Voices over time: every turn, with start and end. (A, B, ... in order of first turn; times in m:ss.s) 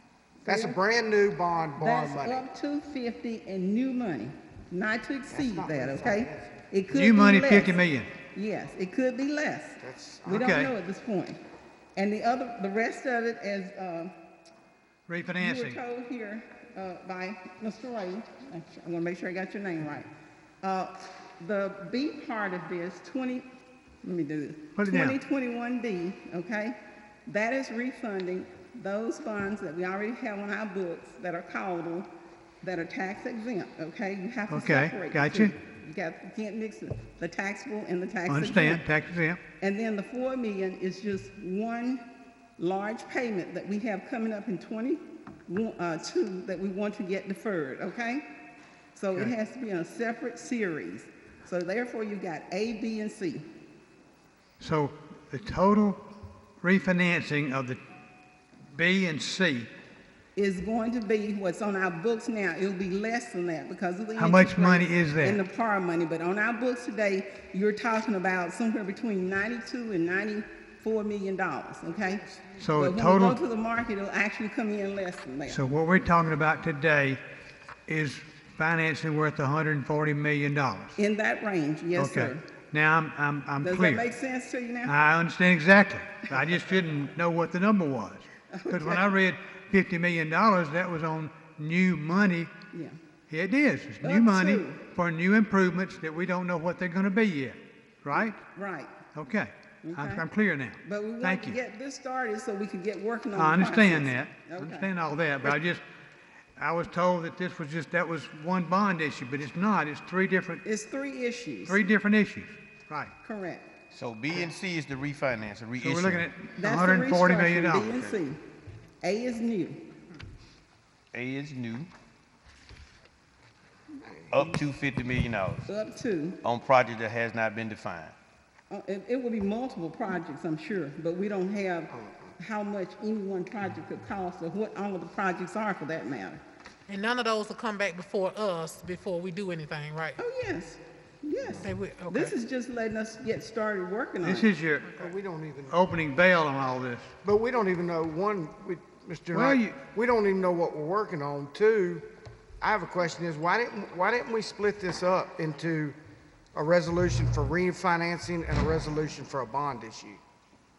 0:00.4-0:00.8 A
0:00.4-0:02.5 B
0:01.8-0:07.8 A
0:05.3-0:06.6 B
0:06.9-0:08.1 C
0:08.3-0:11.4 A
0:09.8-0:10.4 B
0:10.3-0:10.7 C
0:12.0-0:14.1 A
0:15.1-0:15.8 C
0:15.4-0:20.1 A
0:20.6-0:23.5 A
0:24.0-0:32.1 A
0:24.8-0:25.2 C
0:32.6-0:38.8 A
0:34.5-0:35.6 C
0:38.3-0:39.4 C
0:39.6-0:42.0 A
0:42.6-0:48.2 A
0:49.0-0:53.4 A
0:54.6-0:56.1 C
0:56.6-0:57.8 C
0:58.7-0:59.7 C
1:00.4-1:15.6 A
1:04.2-1:05.4 C
1:12.6-1:13.4 C
1:15.5-1:17.2 C
1:17.9-1:21.0 C
1:21.0-1:22.4 A
1:22.0-1:24.0 C
1:23.6-1:24.9 A
1:24.9-1:32.5 C
1:28.5-1:29.0 A
1:33.3-1:38.4 C
1:34.0-1:34.8 A
1:38.6-1:38.9 A
1:39.2-1:41.6 C
1:39.8-1:40.2 A
1:40.8-1:44.9 A
1:43.4-1:45.8 C
1:46.6-1:50.6 C
1:50.6-1:51.8 A
1:51.7-1:53.1 C
1:53.2-1:53.7 A
1:53.9-1:56.3 D
1:55.8-1:57.9 C
1:56.6-1:58.4 A
1:59.0-1:59.8 A
2:01.1-2:01.9 D
2:04.0-2:04.5 B
2:04.3-2:05.7 D
2:05.7-2:06.4 A
2:06.4-2:08.2 D
2:08.7-2:16.4 A
2:16.9-2:20.2 E
2:20.2-2:24.5 A
2:21.6-2:22.3 E
2:24.2-2:24.9 C
2:25.0-2:25.8 B
2:25.7-2:27.1 C
2:27.2-2:32.0 B
2:29.3-2:29.7 C
2:32.6-2:36.0 B
2:36.5-2:40.2 B